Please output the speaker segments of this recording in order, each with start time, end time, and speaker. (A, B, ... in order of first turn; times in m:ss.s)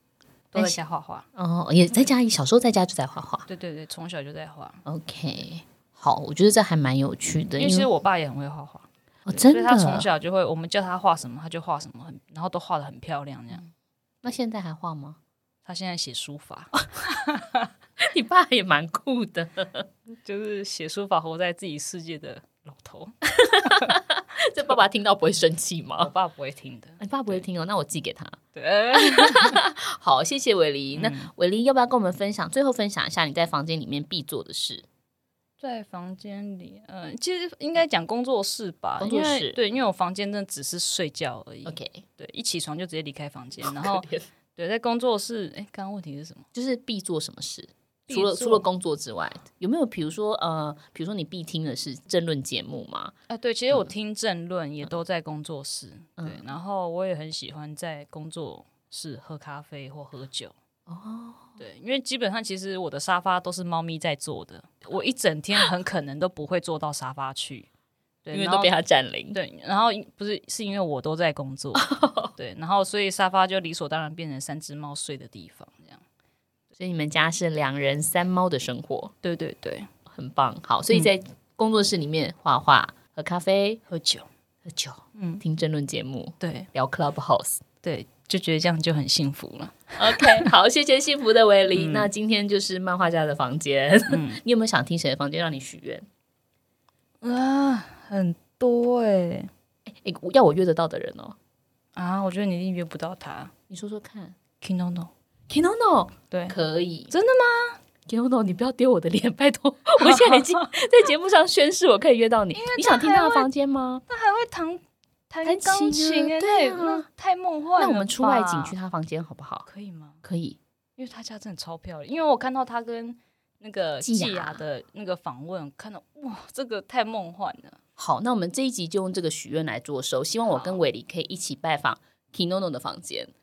0:00.5-0:01.3 A
0:01.4-0:03.5 B
0:03.5-0:04.8 A
0:04.9-0:07.9 B
0:07.6-0:13.7 A
0:09.3-0:10.1 B
0:14.2-0:15.2 B
0:15.6-0:17.7 A
0:18.0-0:19.9 B
0:20.2-0:24.0 A
0:23.4-0:26.1 B
0:26.0-0:27.4 A
0:27.0-0:28.4 B
0:28.6-0:29.6 A
0:29.0-0:34.8 B
0:31.0-0:31.3 A
0:35.6-0:46.5 A
0:39.0-0:39.6 B
0:41.6-0:42.0 B
0:43.6-0:44.3 B
0:46.5-0:53.1 B
0:48.1-0:48.7 A
0:53.3-1:00.5 A
0:56.2-0:56.4 B
1:00.9-1:01.6 B
1:01.6-1:07.7 A
1:08.2-1:08.8 A
1:08.3-1:09.4 B
1:09.3-1:16.0 A
1:11.8-1:12.3 B
1:16.8-1:19.1 B
1:19.2-1:19.9 A
1:20.1-1:23.8 B
1:23.9-1:24.3 A
1:24.6-1:27.6 B
1:25.2-1:25.4 A
1:26.4-1:26.7 A
1:27.8-1:30.5 A
1:30.0-1:36.1 B
1:31.7-1:32.1 A
1:34.1-1:34.4 A
1:37.2-1:39.5 A
1:39.9-1:41.4 B
1:42.0-1:43.5 A
1:43.7-1:44.4 B
1:44.6-1:45.1 A
1:45.5-1:47.1 B
1:46.3-1:46.6 A
1:47.1-1:47.8 A
1:48.1-1:54.0 B
1:50.0-1:50.7 A
1:52.5-1:53.5 A
1:54.1-1:58.8 A
1:55.4-1:57.1 B
1:57.8-1:59.7 B
1:59.7-2:00.2 A
2:00.2-2:00.6 B
2:01.0-2:07.8 A
2:04.0-2:04.6 B
2:08.0-2:13.3 B
2:10.5-2:10.8 A